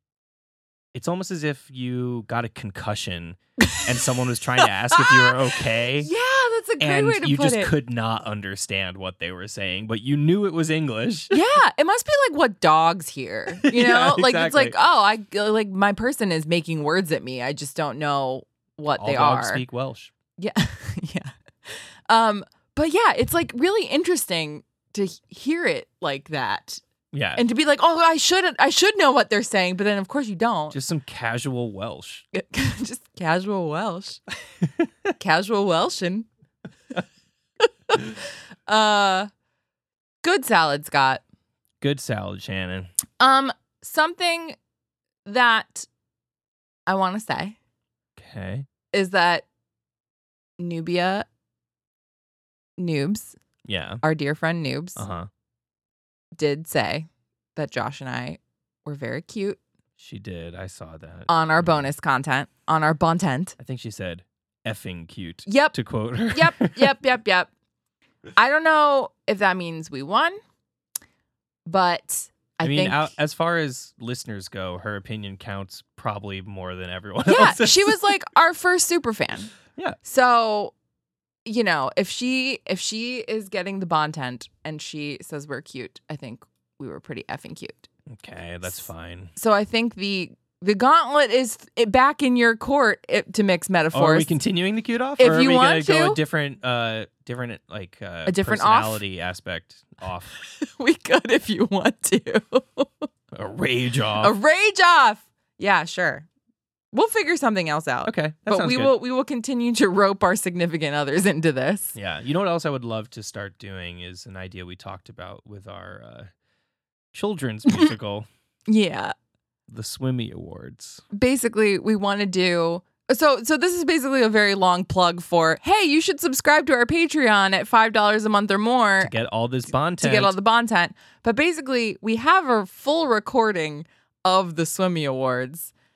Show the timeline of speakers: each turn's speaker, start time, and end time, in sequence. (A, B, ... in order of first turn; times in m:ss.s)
0:00.9-0:06.1 A
0:03.6-0:03.9 B
0:04.9-0:07.7 B
0:06.8-0:11.3 A
0:11.3-0:19.6 B
0:13.5-0:14.8 A
0:19.0-0:20.1 A
0:20.4-0:26.8 B
0:27.1-0:27.4 A
0:27.4-0:30.8 B
0:30.7-0:32.2 A
0:32.3-0:34.2 B
0:35.2-0:36.3 B
0:37.9-0:39.3 B
0:40.2-0:41.2 B
0:41.8-0:42.9 A
0:43.2-0:44.6 B
0:45.2-0:45.9 B
0:46.9-0:47.6 B
0:48.2-0:48.7 A
0:48.9-0:49.4 B
0:50.6-0:51.3 B
0:52.8-0:53.4 B
0:53.6-0:54.0 A
0:54.0-0:55.0 B
0:55.0-0:55.3 A
0:56.4-0:59.6 B
1:00.0-1:01.9 A
1:01.3-1:03.6 B
1:03.6-1:07.0 A
1:05.5-1:05.8 B
1:06.3-1:07.5 B
1:08.4-1:10.4 B
1:11.7-1:13.1 B
1:12.6-1:18.1 A
1:17.2-1:20.7 B
1:21.4-1:27.9 B
1:28.1-1:29.3 A
1:28.6-1:34.3 B
1:33.9-1:40.3 A
1:35.2-1:36.2 B
1:38.3-1:39.0 B
1:40.4-1:43.1 B
1:43.3-1:44.3 A
1:44.2-1:46.3 B
1:46.9-1:52.0 B
1:48.0-1:48.9 A
1:52.0-1:56.3 A
1:57.1-1:58.3 A
1:58.7-1:59.1 B
1:59.7-2:01.0 A
2:01.1-2:09.1 B
2:09.0-2:10.4 A
2:10.0-2:15.7 B